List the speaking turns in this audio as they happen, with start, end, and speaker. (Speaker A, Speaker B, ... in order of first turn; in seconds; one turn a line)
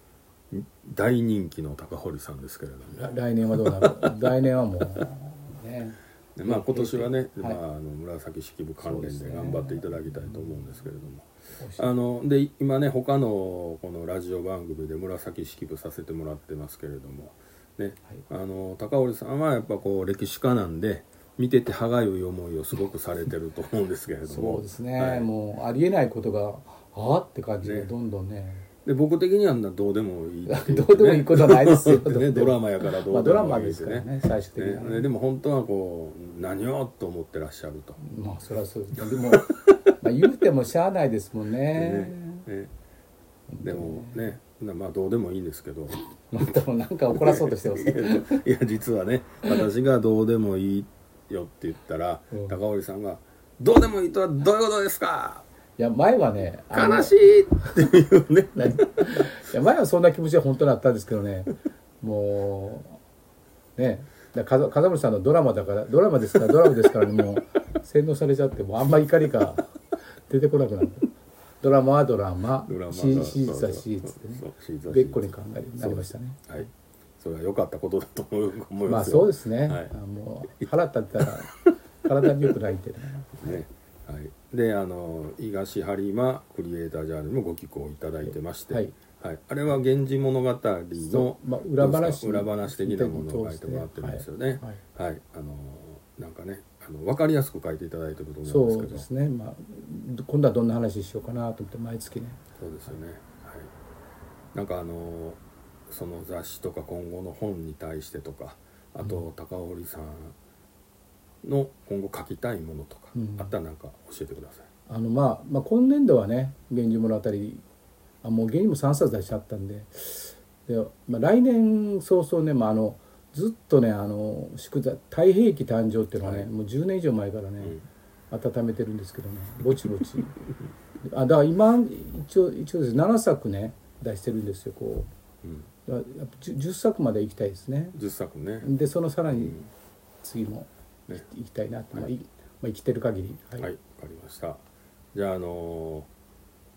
Speaker A: 0.5-4.4
Speaker B: 3.0-7.6
Speaker A: 6.3-11.2
Speaker B: 8.8-10.6
Speaker B: 11.6-11.9
Speaker A: 11.8-25.3
Speaker B: 24.3-28.6
Speaker A: 27.6-27.9
Speaker A: 28.8-38.0
Speaker B: 30.5-35.1
Speaker B: 38.0-42.5
Speaker A: 39.1-39.7
Speaker A: 41.7-42.7
Speaker B: 43.5-44.3
Speaker A: 43.6-46.4
Speaker B: 46.3-48.4
Speaker A: 47.1-55.4
Speaker B: 55.8-57.2
Speaker A: 56.7-59.3
Speaker B: 58.5-63.0
Speaker B: 63.8-69.7
Speaker B: 70.3-71.1
Speaker B: 71.6-76.7
Speaker A: 72.7-79.9
Speaker B: 78.8-83.6
Speaker A: 80.6-81.7
Speaker A: 83.4-99.0
Speaker B: 88.2-89.0
Speaker B: 91.0-94.8
Speaker B: 98.4-102.4
Speaker A: 102.6-103.7
Speaker A: 104.5-110.3
Speaker A: 111.4-114.7
Speaker B: 113.1-113.5
Speaker B: 114.9-117.6
Speaker B: 118.2-127.8
Speaker A: 126.2-126.5
Speaker B: 128.3-130.3
Speaker B: 131.0-135.1
Speaker B: 135.8-138.0
Speaker A: 137.9-138.7
Speaker B: 138.6-139.6
Speaker A: 139.3-139.6
Speaker B: 140.2-143.7
Speaker A: 143.6-144.6
Speaker A: 145.1-146.1